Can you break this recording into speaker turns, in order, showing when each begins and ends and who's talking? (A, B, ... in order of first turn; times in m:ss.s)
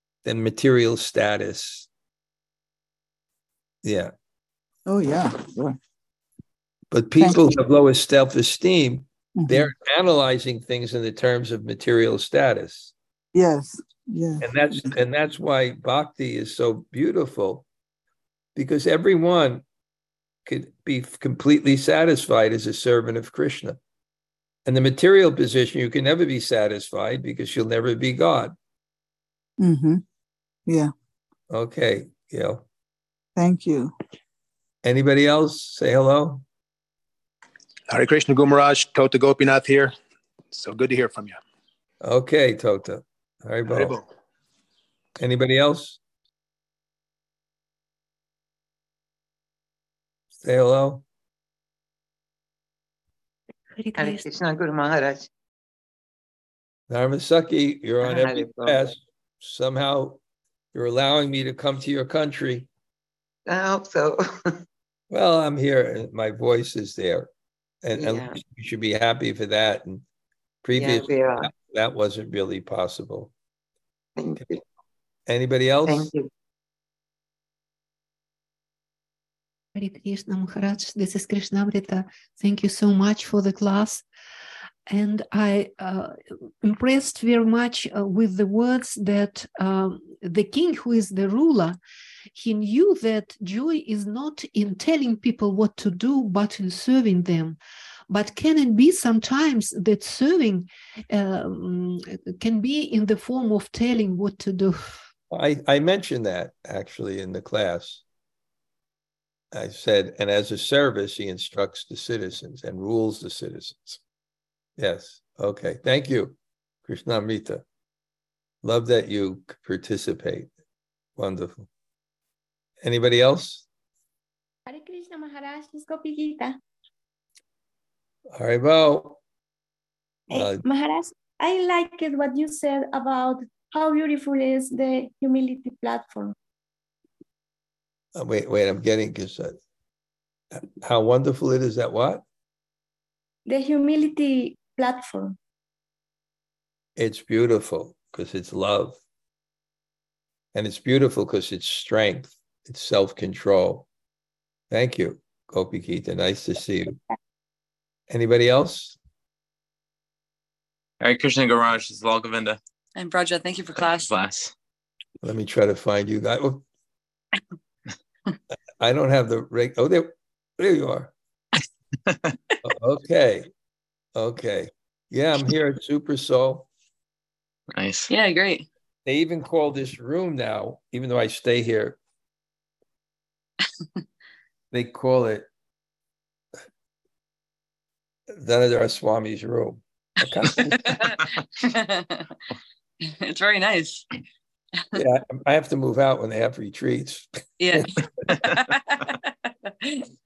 0:00.2-0:01.9 A
0:03.8-0:04.1 A
0:04.9-0:05.8 B
0:06.9-0:12.9 A
0:07.2-0:07.5 B
0:09.4-0:09.7 B
0:13.3-0:14.5 B
0:14.4-0:17.7 A
0:18.6-0:19.6 A
0:20.5-0:23.8 A
0:24.7-0:28.6 A
0:29.6-0:30.0 B
0:30.7-0:30.9 B
0:31.5-0:32.6 A
0:33.4-0:33.9 B
0:34.8-0:36.4 A
0:37.9-0:39.9 C
0:40.5-0:41.4 C
0:42.0-0:44.0 A
0:43.7-0:44.0 C
0:45.2-0:46.0 A
0:50.4-0:51.0 A
0:53.8-0:54.3 D
0:54.0-0:55.3 E
0:56.9-1:00.2 A
0:58.0-0:58.8 E
1:00.7-1:02.7 A
1:03.5-1:04.3 E
1:05.1-1:07.3 A
1:07.8-1:10.0 A
1:08.0-1:08.4 E
1:10.6-1:13.3 A
1:10.8-1:11.5 E
1:14.2-1:14.6 E
1:15.3-1:16.1 A
1:15.8-1:16.3 E
1:19.8-1:24.0 D
1:24.9-1:31.8 D
1:32.3-1:37.6 D
1:38.1-1:44.9 D
1:45.3-1:48.0 A
1:49.5-1:54.0 A
1:54.8-1:56.4 A
1:56.9-1:57.6 A
1:58.6-2:00.5 A
2:01.2-2:01.7 A
2:02.8-2:03.7 A
2:04.7-2:06.6 F
2:08.3-2:09.2 A
2:10.3-2:16.4 F
2:10.3-2:10.6 A
2:18.2-2:19.6 A
2:20.5-2:22.2 A
2:23.5-2:25.4 F
2:27.0-2:29.0 A
2:30.5-2:33.9 A
2:34.7-2:37.0 A
2:38.1-2:39.0 A
2:41.0-2:42.6 G
2:43.0-2:44.1 H
2:43.7-2:44.5 G
2:45.2-2:46.6 A
2:48.8-2:51.1 A
2:52.6-2:53.5 A
2:54.2-2:56.7 A
2:57.7-2:58.1 G
2:58.1-2:58.7 H
2:59.1-3:02.0 A
3:04.7-3:05.5 A
3:08.3-3:11.0 A
3:10.8-3:12.3 H
3:13.1-3:14.1 H
3:14.9-3:17.9 A
3:17.6-3:19.1 H
3:19.7-3:20.0 H